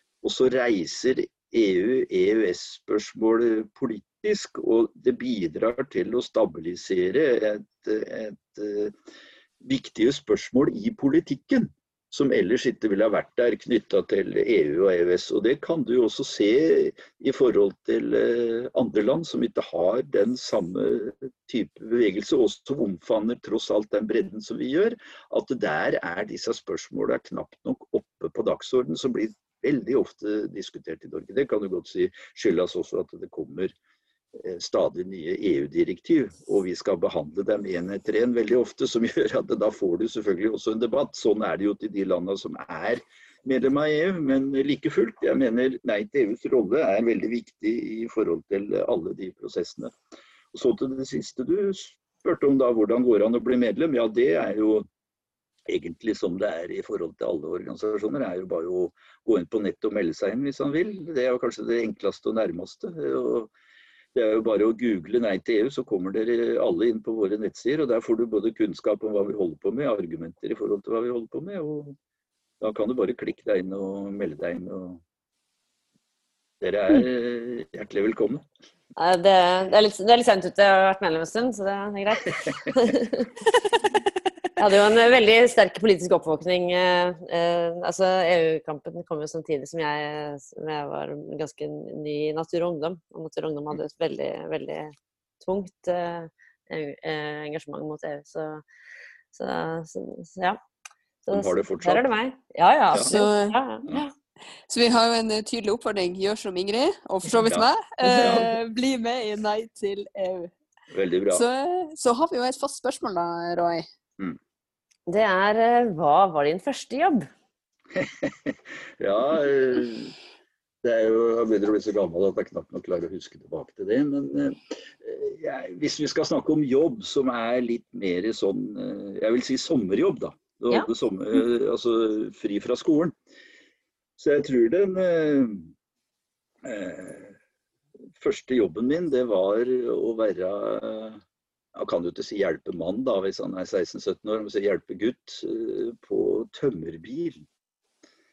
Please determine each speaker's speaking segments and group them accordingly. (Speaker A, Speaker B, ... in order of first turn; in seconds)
Speaker A: 0.2-8.9, 9.6-33.7, 34.4-49.9, 50.5-54.9, 55.7-63.5, 64.1-72.0, 72.6-75.0, 76.6-78.4, 101.3-102.1, 108.2-108.5, 110.9-111.5, 117.9-120.1, 120.8-133.2, 134.2-135.7, 136.6-137.4, 138.2-141.2, 141.8-147.5
Speaker B: 79.0-83.3, 84.6-98.6, 99.3-100.6, 101.3-104.1, 115.1-117.3
Speaker C: 103.0-103.6, 104.7-110.5, 111.3-113.9